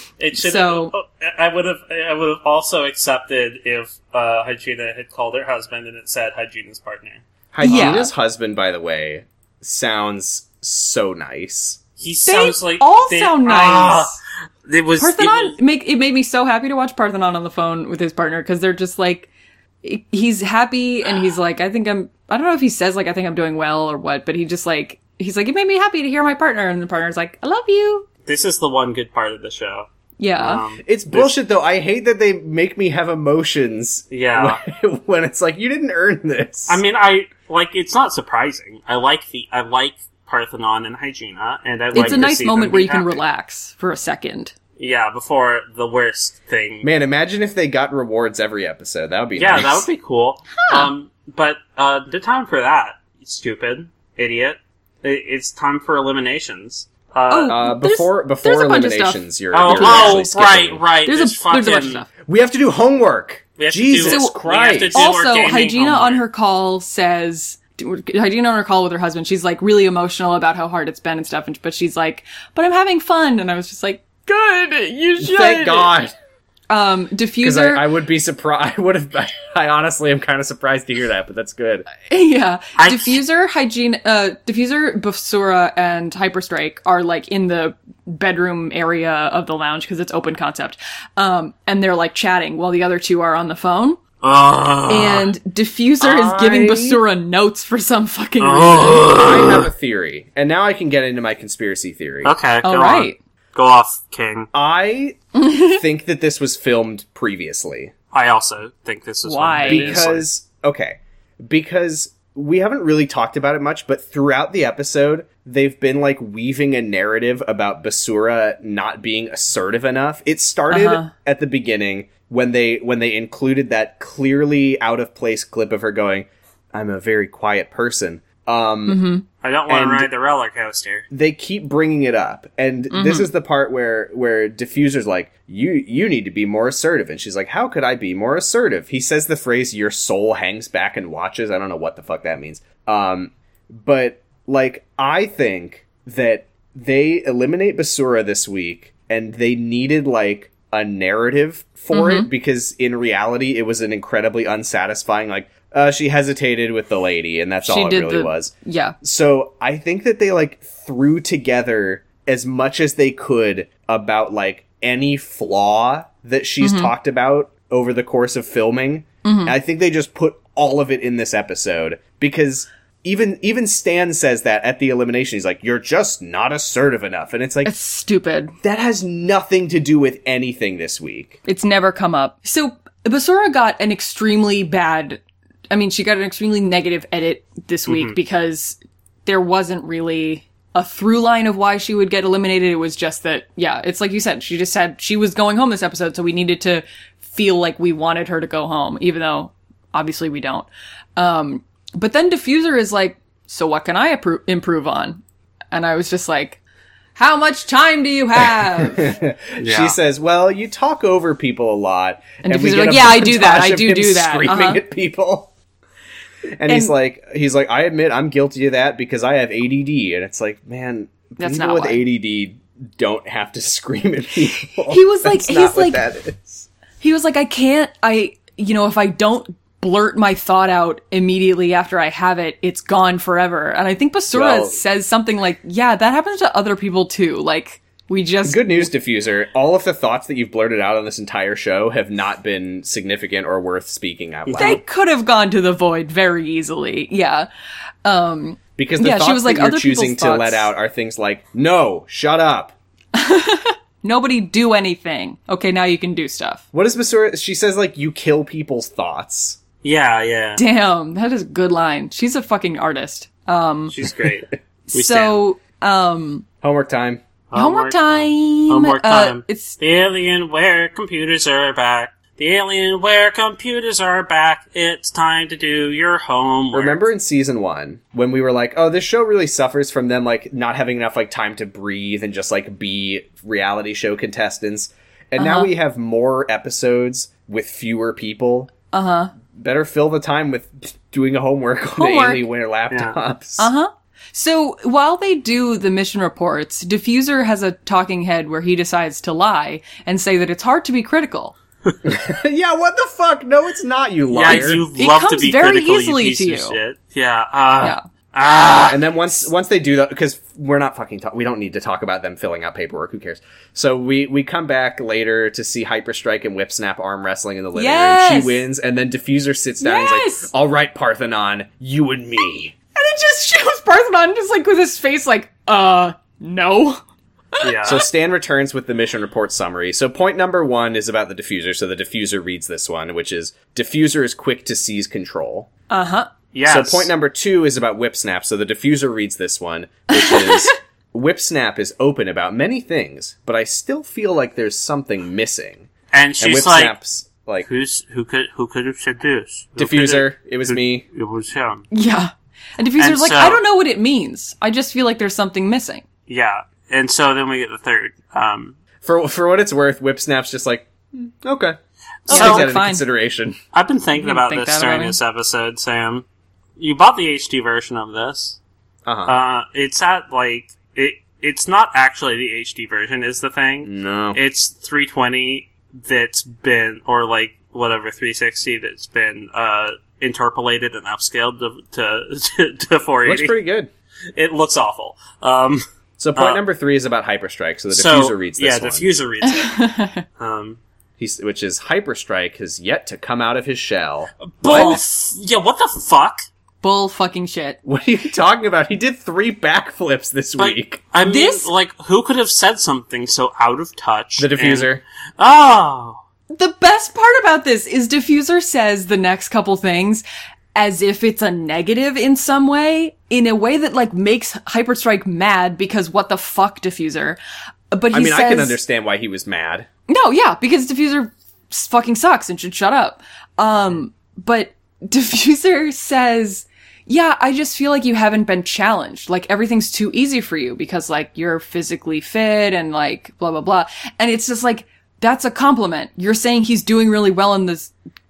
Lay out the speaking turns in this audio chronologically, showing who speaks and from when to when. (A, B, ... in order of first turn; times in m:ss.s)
0:00.2-0:08.0 A
0:00.4-0:00.9 B
0:07.5-0:11.8 C
0:07.6-0:08.1 B
0:12.0-0:14.2 A
0:12.2-0:14.2 B
0:14.7-0:15.6 A
0:15.0-0:19.3 B
0:19.8-0:28.0 B
0:28.2-0:29.9 A
0:30.2-0:30.6 B
0:30.4-0:31.3 A
0:30.8-0:36.8 C
0:34.1-0:34.6 A
0:36.7-0:43.2 A
0:41.9-0:42.7 C
0:41.9-0:44.5 B
0:44.8-0:46.9 A
0:46.8-0:49.9 C
0:49.4-0:57.6 A
0:50.6-0:50.9 B
0:57.3-1:00.2 B
0:57.5-1:00.8 C
0:59.5-1:02.0 A
1:01.0-1:02.1 B
1:02.2-1:05.0 C
1:03.6-1:06.2 A
1:04.0-1:04.4 B
1:04.9-1:15.9 B
1:15.2-1:16.1 C
1:16.7-1:17.9 B
1:17.4-1:21.9 C
1:22.1-1:34.0 B
1:22.8-1:23.2 A
1:34.2-1:35.3 A
1:34.9-1:39.1 B
1:36.1-1:37.0 C
1:38.4-1:39.7 A
1:39.1-1:42.3 C
1:42.2-1:44.5 A
1:42.6-1:43.2 B
1:44.5-1:47.9 C
1:45.3-1:45.8 B
1:48.1-1:50.3 A
1:49.2-1:50.0 B
1:49.6-2:09.0 C
2:00.7-2:01.1 B
2:08.9-2:09.2 B
2:09.4-2:11.1 A
2:09.7-2:10.1 C
2:11.1-2:57.7 C
2:12.9-2:13.3 B
2:31.9-2:32.3 B
2:37.6-2:39.0 B
2:46.6-2:46.9 B
2:49.2-2:49.6 B
2:57.6-2:58.5 B
2:58.6-3:01.4 C
3:01.4-3:26.6 B
3:07.9-3:08.1 A
3:27.2-3:29.1 B
3:28.6-3:35.5 C
3:29.6-3:30.0 A
3:32.4-3:34.8 B
3:36.6-3:46.7 C
3:36.7-3:36.9 B
3:41.4-3:42.0 B
3:44.9-3:46.0 B
3:47.0-3:58.9 B
3:54.3-3:54.8 C
3:58.4-4:04.8 C
4:04.5-4:04.8 A
4:04.6-4:07.5 B
4:08.0-4:10.7 B
4:08.8-4:12.7 C
4:13.1-4:16.6 B
4:16.7-4:19.6 C
4:19.8-4:20.6 A
4:20.6-4:23.9 B
4:23.9-4:25.4 A
4:24.9-4:26.4 B
4:26.6-4:27.2 C
4:27.5-4:37.1 A
4:27.5-4:29.8 B
4:36.7-4:48.7 C
4:45.4-4:45.7 B
4:48.9-4:49.3 B
4:49.5-4:53.7 C
4:52.0-4:52.4 B
4:52.9-4:53.2 A
4:53.6-5:01.5 B
5:02.0-5:04.8 C
5:04.3-5:09.0 A
5:04.9-5:06.8 B
5:08.9-5:22.7 C
5:17.7-5:18.6 B
5:19.8-5:20.5 B
5:22.9-5:27.0 B
5:27.6-5:28.0 A
5:27.8-5:35.7 C
5:35.9-5:36.3 B
5:36.5-5:37.1 A
5:36.6-5:45.9 C
5:40.1-5:40.8 B
5:46.1-5:47.0 A
5:46.4-5:47.7 C
5:47.6-5:51.8 A
5:49.8-5:51.0 C
5:51.9-5:56.0 B
5:53.0-5:53.6 A
5:56.3-5:58.8 A
5:59.0-6:03.6 C
6:02.3-6:02.6 A
6:02.3-6:03.0 B
6:03.7-6:06.2 A
6:04.2-6:05.2 B
6:06.8-6:08.6 A
6:09.0-6:09.3 C
6:09.2-6:23.6 A
6:13.8-6:14.4 C
6:23.2-6:23.9 C
6:24.3-6:25.8 A
6:26.2-6:29.1 C
6:26.4-6:26.6 A
6:27.9-6:30.8 A
6:29.4-6:30.2 B
6:31.2-6:35.0 C
6:34.4-6:36.4 A
6:34.6-6:35.0 B
6:36.8-6:37.8 B
6:37.8-6:41.0 C
6:40.6-6:46.2 A
6:41.2-6:41.7 B
6:44.4-6:45.0 C
6:46.5-6:50.2 B
6:50.7-6:57.4 B
6:57.9-6:58.8 B
6:58.1-6:59.9 C
7:00.1-7:17.9 B